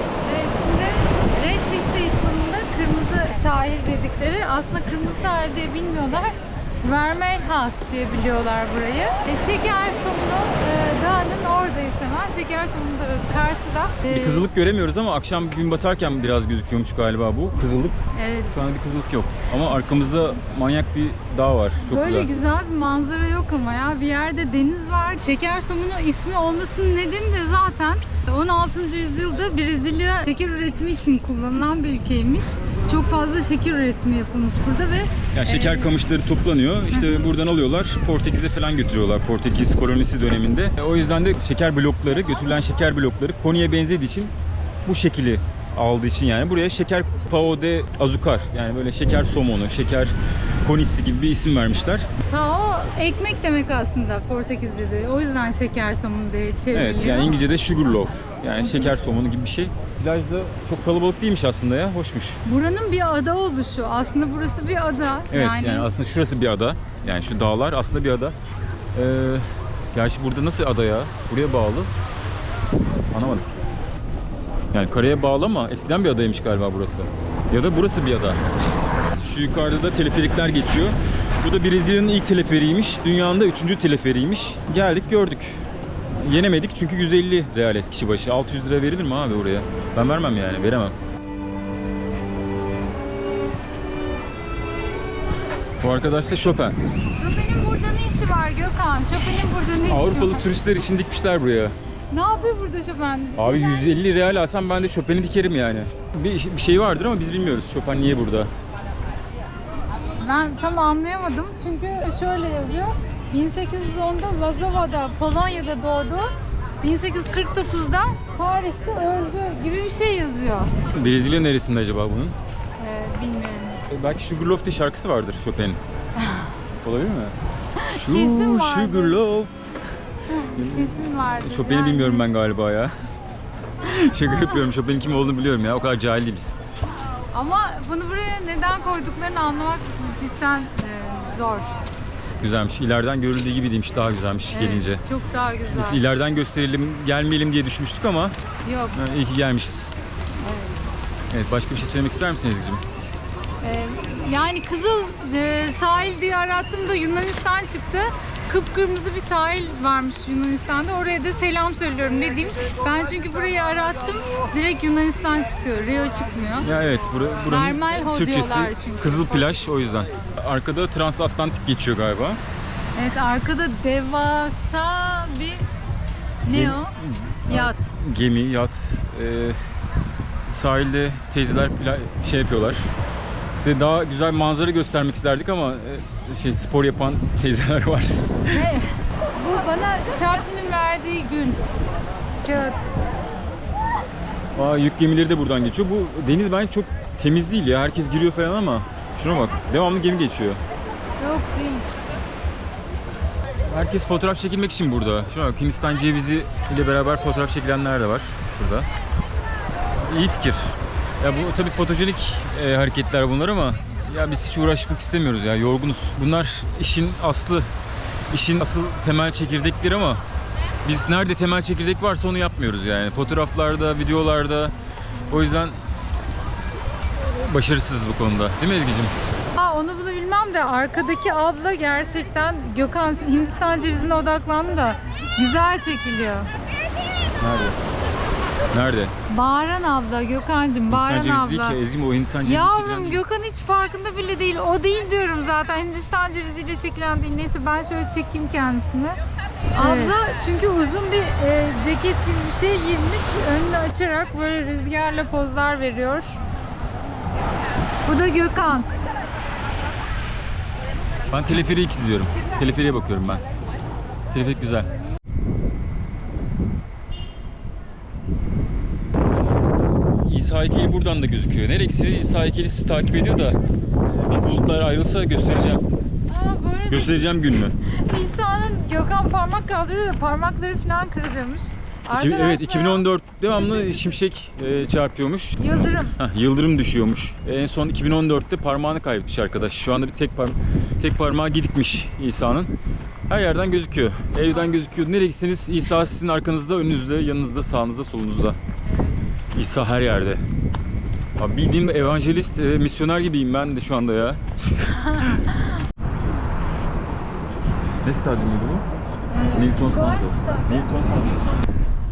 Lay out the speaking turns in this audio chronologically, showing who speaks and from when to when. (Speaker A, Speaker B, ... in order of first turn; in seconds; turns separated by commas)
Speaker A: 0.2-14.5, Speaker B: 14.1-18.0, Speaker A: 18.1-18.5, Speaker B: 18.5-22.3, Speaker A: 21.9-35.9, Speaker B: 35.3-44.3, Speaker A: 36.9-37.2, Speaker B: 44.9-52.1, Speaker A: 52.3-57.5, Speaker B: 56.7-62.4, Speaker A: 58.6-58.9, Speaker A: 62.5-65.9, Speaker B: 65.3-68.4, Speaker B: 68.9-71.9, Speaker B: 73.1-73.5, Speaker B: 74.7-78.4, Speaker B: 79.1-85.6, Speaker B: 86.2-91.0, Speaker B: 95.8-96.8, Speaker A: 97.2-100.4, Speaker B: 99.9-101.8, Speaker A: 102.1-103.9, Speaker B: 103.4-108.5, Speaker A: 110.2-120.7, Speaker B: 120.9-122.4, Speaker A: 122.8-123.8, Speaker B: 123.9-125.8, Speaker A: 126.2-126.5, Speaker B: 126.8-127.3, Speaker A: 127.8-129.2, Speaker B: 127.9-129.5, Speaker A: 130.3-132.3, Speaker B: 130.6-132.9, Speaker B: 133.8-136.6, Speaker A: 137.3-141.8, Speaker B: 142.4-145.0, Speaker A: 144.5-146.0, Speaker B: 145.7-148.3, Speaker A: 148.6-149.0, Speaker B: 148.9-149.9, Speaker A: 150.4-150.8, Speaker B: 151.3-152.8, Speaker A: 153.6-166.7, Speaker B: 166.6-172.4, Speaker A: 167.5-169.5, Speaker A: 172.9-175.7, Speaker A: 176.4-176.9, Speaker B: 176.5-179.6, Speaker A: 177.5-177.9, Speaker B: 180.5-182.9, Speaker B: 183.6-188.7, Speaker A: 188.5-191.6, Speaker A: 192.4-192.9, Speaker B: 194.6-200.6, Speaker A: 201.2-201.9, Speaker B: 203.6-208.9, Speaker B: 210.0-217.7, Speaker B: 218.3-220.2, Speaker B: 220.8-224.7, Speaker B: 225.3-225.8, Speaker B: 227.3-229.1, Speaker A: 229.6-236.5, Speaker B: 237.4-237.8, Speaker B: 238.7-239.1, Speaker A: 239.3-241.8, Speaker B: 240.9-243.2, Speaker A: 242.4-249.2, Speaker A: 249.8-256.4, Speaker B: 249.8-250.2, Speaker A: 258.1-258.9, Speaker B: 261.3-263.4, Speaker B: 264.3-264.9, Speaker B: 270.2-275.8, Speaker A: 276.3-277.2, Speaker B: 276.9-277.8, Speaker A: 277.8-284.2, Speaker B: 282.1-292.7, Speaker A: 285.6-286.2, Speaker B: 293.3-298.6, Speaker A: 298.9-299.2, Speaker B: 299.5-300.4, Speaker B: 301.4-305.5, Speaker B: 308.0-308.9, Speaker A: 309.3-310.9, Speaker B: 309.5-311.5